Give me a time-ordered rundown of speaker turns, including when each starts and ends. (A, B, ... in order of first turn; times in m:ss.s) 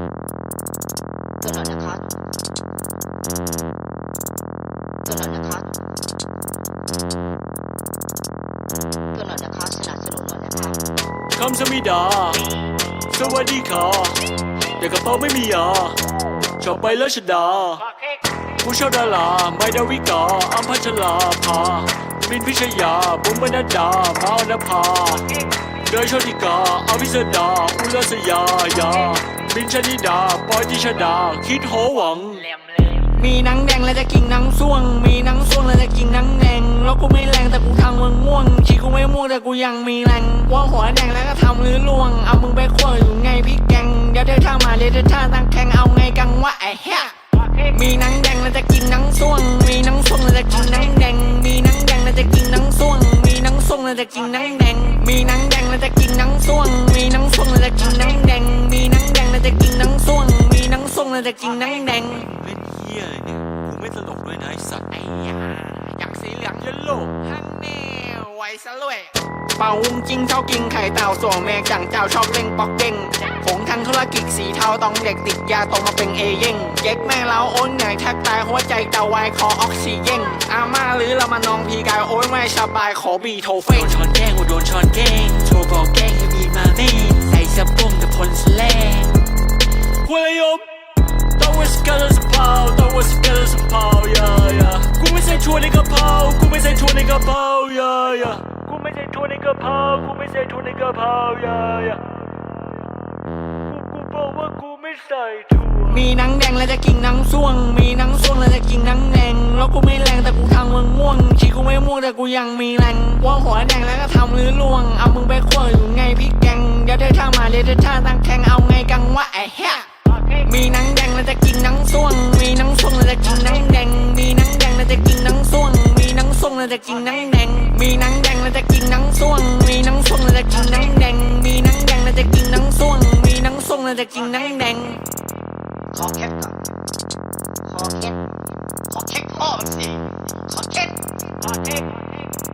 0:01.4-0:02.2 A
0:05.1-0:05.7 A
0:09.1-0:10.8 A
0:11.3-0:12.5 B
0:13.1-0:14.2 B
0:14.8-0:16.0 B
0:16.6-0:17.9 B
0:18.6-0:32.6 B
0:33.1-1:02.3 C
1:02.3-1:04.9 B
1:04.9-1:24.0 C
1:23.8-1:29.2 B
1:30.0-1:30.7 B
1:31.4-1:42.3 B
1:43.7-1:46.0 B
1:45.9-2:15.0 C
2:15.9-2:16.6 A
2:17.7-2:18.2 A
2:18.9-2:21.0 A